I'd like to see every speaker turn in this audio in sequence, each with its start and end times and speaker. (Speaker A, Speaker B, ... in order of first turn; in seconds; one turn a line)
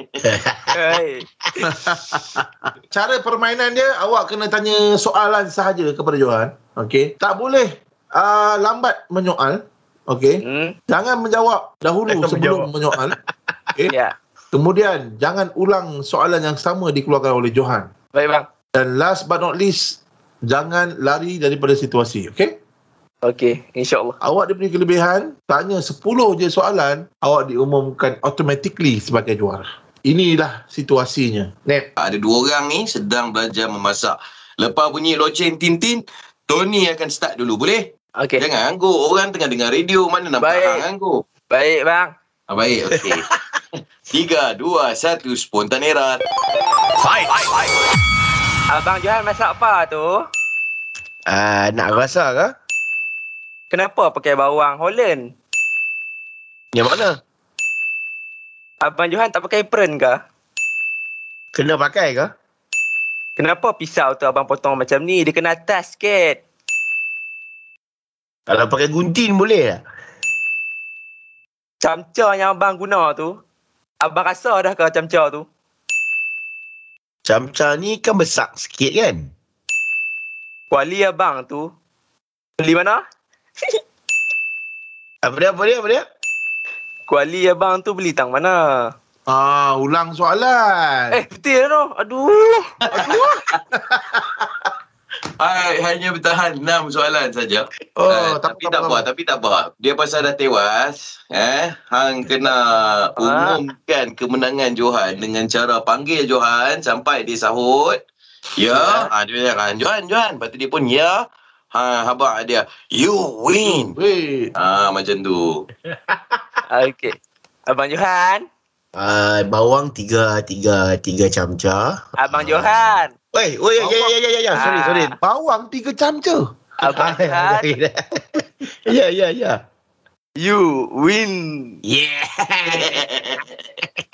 Speaker A: 0.2-0.8
Speaker B: 0.7-1.2
Speaker C: 1.7-2.4
Speaker C: 2.9-13.1
Speaker B: 10.4-10.8
Speaker A: 12.1-13.2
Speaker B: 13.9-14.1
Speaker C: 14.5-17.9
Speaker B: 18.1-18.5
Speaker C: 18.7-22.5
Speaker B: 23.2-24.1
Speaker C: 24.2-31.9
Speaker D: 32.0-41.2
Speaker B: 38.2-38.4
Speaker B: 40.4-40.8
Speaker B: 41.5-42.1
Speaker D: 42.5-43.3
Speaker D: 44.1-46.2
Speaker B: 48.7-50.2
Speaker A: 51.3-52.5
Speaker B: 53.7-55.3
Speaker A: 56.7-57.2
Speaker B: 58.8-60.2
Speaker A: 61.5-62.3
Speaker B: 63.4-66.4
Speaker A: 68.5-69.8
Speaker B: 71.8-73.4
Speaker B: 74.0-75.5
Speaker A: 77.2-79.3
Speaker B: 80.7-81.7
Speaker B: 82.6-83.0
Speaker A: 85.2-86.0
Speaker B: 87.1-88.9
Speaker C: 89.3-91.2
Speaker B: 91.1-93.2
Speaker D: 92.9-93.3
Speaker C: 92.9-94.4
Speaker D: 95.4-108.0
Speaker C: 97.9-99.0
Speaker B: 103.2-103.6
Speaker D: 108.5-114.0
Speaker B: 108.7-109.1
Speaker C: 113.5-114.5
Speaker D: 114.5-115.6
Speaker A: 115.9-116.6
Speaker B: 116.7-118.4
Speaker A: 118.9-125.2
Speaker B: 122.2-123.1
Speaker C: 123.8-126.5
Speaker B: 124.5-125.2
Speaker B: 126.8-127.7
Speaker A: 126.9-129.6
Speaker B: 130.4-131.8
Speaker A: 131.8-133.1
Speaker D: 132.8-133.4